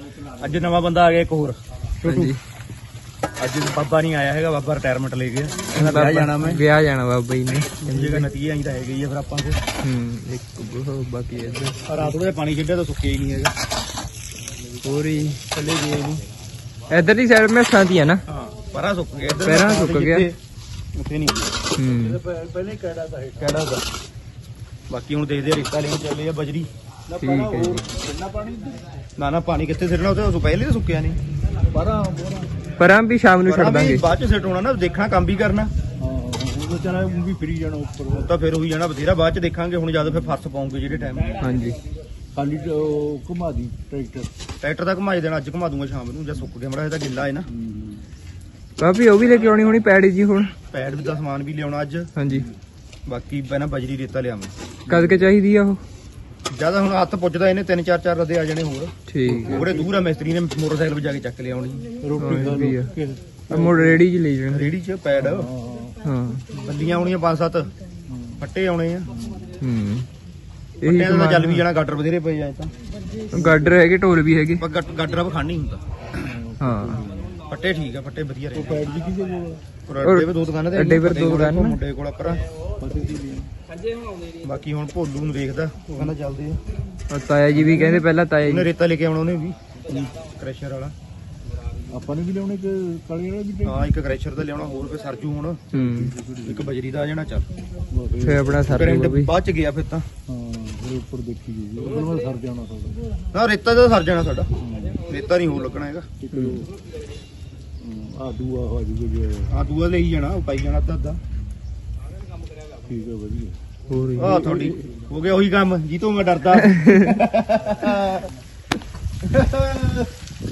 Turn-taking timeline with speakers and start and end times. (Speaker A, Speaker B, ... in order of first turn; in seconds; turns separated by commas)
Speaker A: 0.3-1.6, Speaker B: 2.0-2.4, Speaker A: 3.4-6.6, Speaker B: 5.7-8.3, Speaker A: 7.8-9.6, Speaker B: 9.8-12.1, Speaker A: 11.9-13.5, Speaker B: 14.8-15.4, Speaker A: 15.5-16.2, Speaker B: 16.9-18.2, Speaker A: 18.3-20.4, Speaker B: 19.4-20.3, Speaker A: 20.9-21.5, Speaker B: 21.8-22.2, Speaker C: 21.8-23.7, Speaker A: 23.4-23.8, Speaker A: 24.9-26.7, Speaker C: 27.1-28.8, Speaker B: 27.2-27.9, Speaker A: 29.2-31.2, Speaker C: 31.7-32.6, Speaker B: 32.8-34.1, Speaker A: 33.5-35.7, Speaker C: 36.0-38.3, Speaker A: 38.1-41.4, Speaker B: 41.4-41.8, Speaker C: 42.3-44.3, Speaker A: 44.6-47.5, Speaker C: 47.5-48.0, Speaker B: 48.8-50.5, Speaker A: 50.7-52.1, Speaker B: 52.2-52.5, Speaker A: 53.1-54.5, Speaker C: 54.9-55.3, Speaker B: 54.9-55.8, Speaker A: 56.5-58.9, Speaker B: 59.1-59.7, Speaker C: 59.2-60.0, Speaker A: 59.5-61.9, Speaker C: 62.0-64.1, Speaker B: 62.1-62.9, Speaker B: 63.5-64.8, Speaker A: 64.5-65.5, Speaker C: 65.2-66.0, Speaker B: 66.0-66.4, Speaker A: 66.5-67.7, Speaker C: 68.1-68.5, Speaker A: 68.4-69.1, Speaker C: 69.2-69.5, Speaker B: 69.5-70.1, Speaker B: 70.8-71.7, Speaker A: 70.8-72.7, Speaker B: 73.3-74.7, Speaker C: 73.3-73.8, Speaker A: 74.6-75.8, Speaker C: 76.2-77.4, Speaker B: 76.6-77.0, Speaker A: 77.5-78.9, Speaker C: 78.5-79.6, Speaker A: 79.9-82.5, Speaker B: 80.0-81.8, Speaker C: 82.7-83.5, Speaker A: 84.4-86.6, Speaker B: 87.1-88.7, Speaker C: 87.5-88.0, Speaker A: 88.5-90.9, Speaker C: 91.9-93.9, Speaker A: 93.6-95.7, Speaker B: 95.7-96.2, Speaker C: 95.7-96.7, Speaker A: 96.4-97.5, Speaker C: 97.9-98.7, Speaker B: 98.2-99.3, Speaker A: 98.7-100.1, Speaker C: 100.3-103.0, Speaker A: 103.3-104.5, Speaker C: 104.6-105.1, Speaker A: 105.1-106.1, Speaker C: 106.2-106.7, Speaker B: 106.3-106.7, Speaker C: 107.8-109.5, Speaker A: 109.5-111.2, Speaker C: 112.7-113.6, Speaker B: 113.9-114.3, Speaker C: 114.2-115.1, Speaker A: 114.2-118.3, Speaker B: 116.6-117.2, Speaker A: 119.2-120.1